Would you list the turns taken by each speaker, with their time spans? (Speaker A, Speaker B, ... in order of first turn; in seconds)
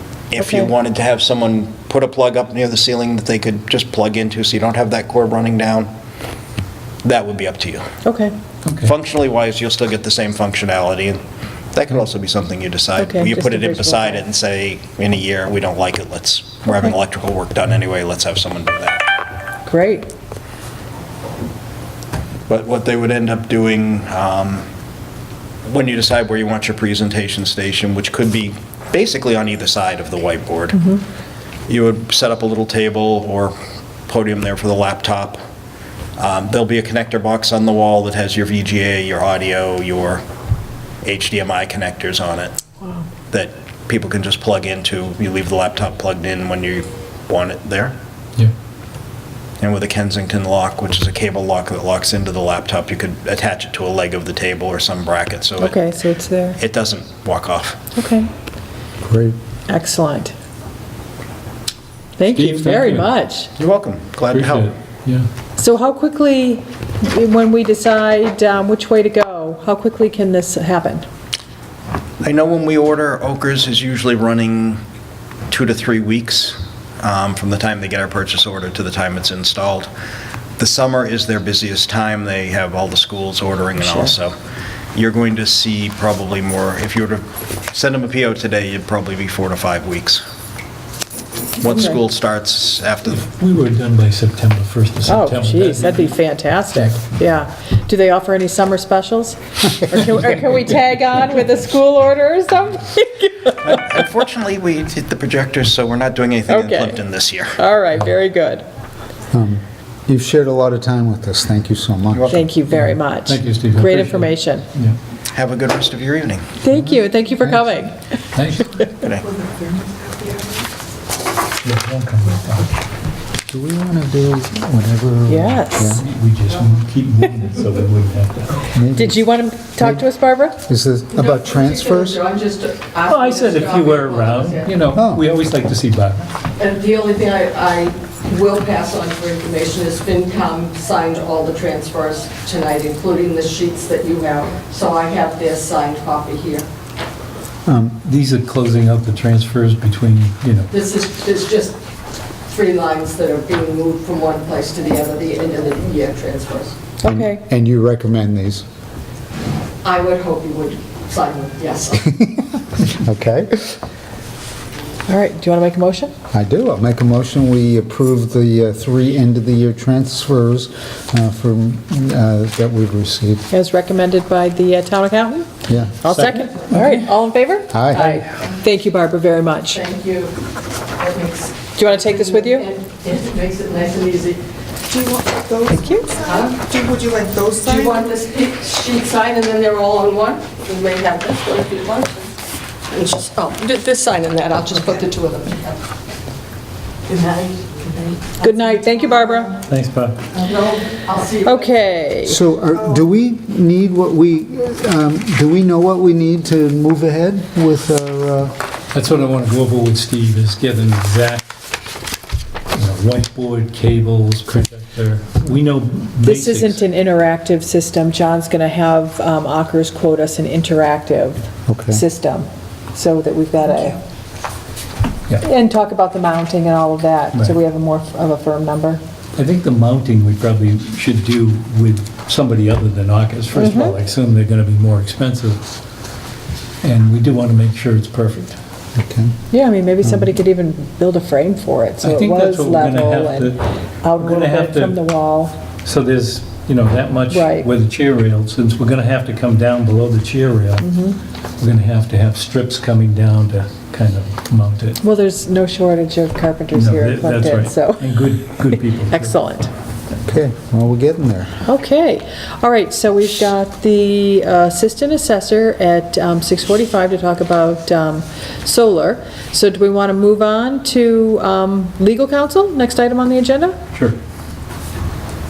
Speaker A: 0.3-5.9, 7.0-7.8, 8.8-11.2, 11.7-19.0, 22.5-24.7, 25.6-30.8, 31.7-33.5, 34.1-35.4, 36.2-40.2, 41.0-42.6, 43.3-47.9, 49.6-55.8, 56.6-57.8, 63.6-64.7, 72.2-74.8, 75.5-79.9, 80.6-84.3, 84.9-90.2, 91.6-93.2, 103.6-107.6, 112.1-112.5, 115.3-116.5, 119.0-119.3
Speaker B: 0.4-0.7, 8.0-8.3, 13.0-14.2, 19.6-20.1, 30.7-31.0, 55.6-56.6, 57.9-58.3, 59.7-60.3, 62.2-63.5, 65.6-71.1, 95.0-103.6, 106.5-107.0, 107.5-108.7, 112.3-114.7, 116.6-118.2, 118.7-119.0, 125.3-125.9, 128.9-130.6, 157.0-157.4, 165.1-166.1, 173.5-175.5, 176.0-179.8, 181.8-182.6, 185.7-186.1, 198.4-199.6, 201.4-202.4, 216.2-224.0, 225.4-229.0, 233.6-234.0, 239.5-245.6, 247.3-247.7, 250.8-251.2, 255.0-259.7, 261.6-273.8
Speaker C: 8.6-8.9, 62.3-63.1, 64.3-65.3, 93.2-96.1, 112.7-115.0, 118.3-118.7, 121.6-122.8, 125.9-128.7, 133.0-136.3, 148.0-150.7, 176.1-176.9, 199.7-200.4, 208.9-211.4, 212.7-216.8, 227.3-227.6, 229.3-235.6, 236.8-238.6, 242.0-245.0, 245.8-250.9, 251.6-255.0, 256.7-259.4
Speaker D: 59.1-59.3, 109.3-112.4, 116.7-117.6, 123.5-126.0, 128.7-129.2, 130.6-132.2, 134.9-135.2, 147.7-147.9, 157.0-158.6, 162.1-163.7, 166.3-173.4, 175.7-176.0, 177.7-178.2, 202.2-208.5, 221.7-222.0, 238.9-239.3, 240.0-240.3, 260.2-261.6
Speaker E: 119.3-120.5, 184.9-188.0
Speaker F: 131.1-134.7, 136.6-146.7, 150.7-151.8, 152.5-156.8, 159.8-162.1, 177.9-178.6, 179.7-180.3, 181.0-184.4, 186.2-186.7, 187.5-192.3, 192.9-195.8, 197.1-199.3, 200.4-201.8